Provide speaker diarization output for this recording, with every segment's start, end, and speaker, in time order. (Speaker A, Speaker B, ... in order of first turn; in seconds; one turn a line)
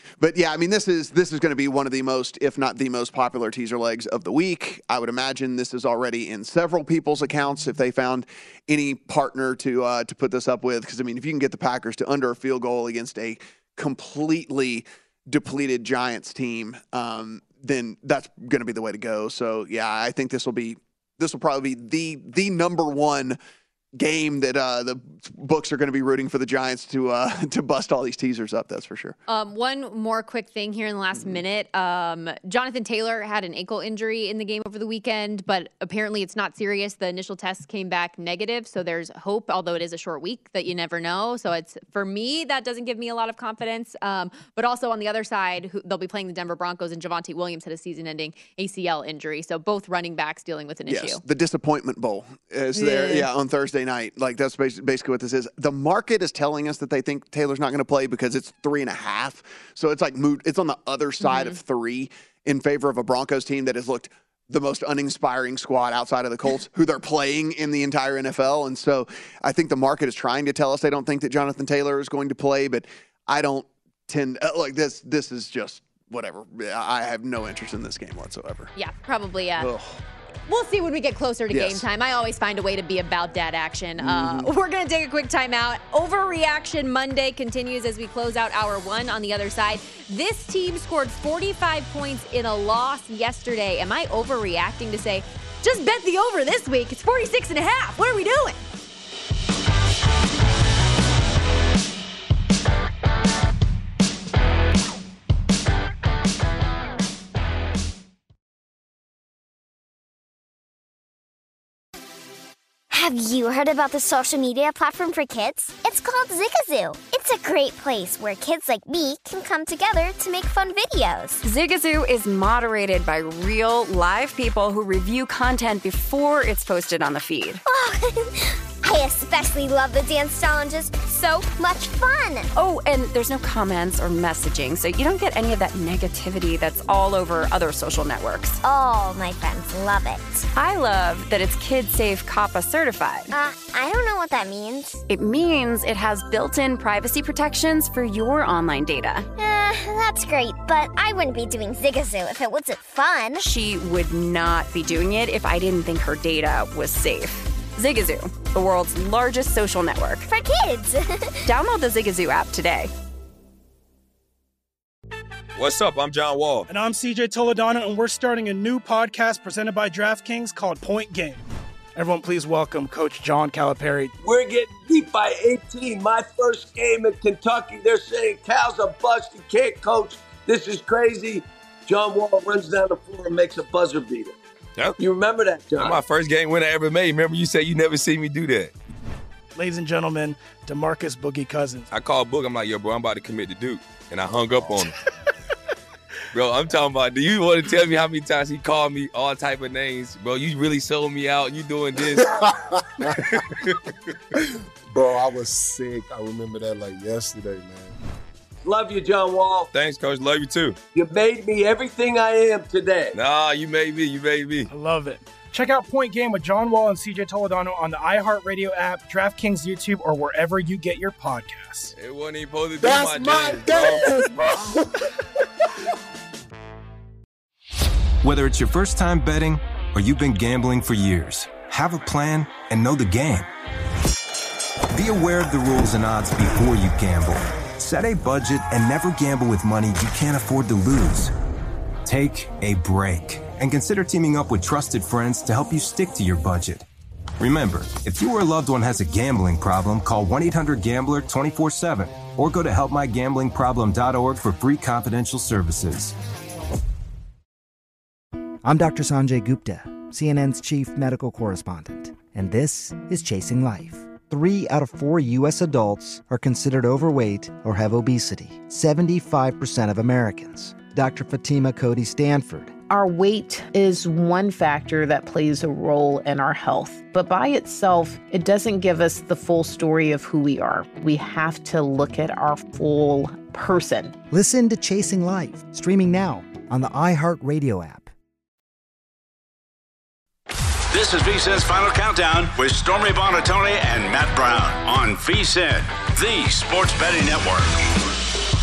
Speaker A: 0.2-23.4
Speaker A: 23.9-29.2
Speaker B: 29.3-51.2
Speaker A: 50.9-78.7
Speaker B: 52.8-53.3
Speaker B: 61.2-61.6
Speaker B: 78.8-79.7
Speaker A: 79.6-80.0
Speaker B: 80.5-98.6
Speaker A: 81.5-81.8
Speaker A: 84.0-84.5
Speaker C: 112.9-121.4
Speaker D: 121.4-127.6
Speaker C: 127.7-132.5
Speaker D: 132.6-138.6
Speaker C: 138.6-140.4
Speaker D: 140.6-143.3
Speaker C: 143.3-145.0
Speaker D: 145.1-149.3
Speaker C: 149.4-153.4
Speaker D: 153.4-160.3
Speaker C: 160.3-161.5
Speaker D: 161.4-162.9
Speaker E: 165.6-166.7
Speaker F: 166.7-171.4
Speaker F: 171.9-174.1
Speaker G: 174.2-184.4
Speaker G: 185.0-186.0
Speaker E: 185.8-188.7
Speaker F: 189.6-191.9
Speaker E: 191.9-194.9
Speaker E: 196.3-202.4
Speaker H: 203.0-203.4
Speaker H: 204.9-207.9
Speaker G: 208.6-209.7
Speaker E: 209.7-210.8
Speaker G: 210.9-213.2
Speaker E: 213.1-214.7
Speaker F: 214.7-221.9
Speaker E: 221.9-224.4
Speaker H: 222.8-224.8
Speaker I: 228.2-233.5
Speaker I: 234.9-241.3
Speaker I: 242.1-246.8
Speaker I: 247.4-256.1
Speaker J: 258.6-272.8
Speaker K: 272.9-284.1
Speaker J: 284.3-288.1
Speaker L: 290.9-297.8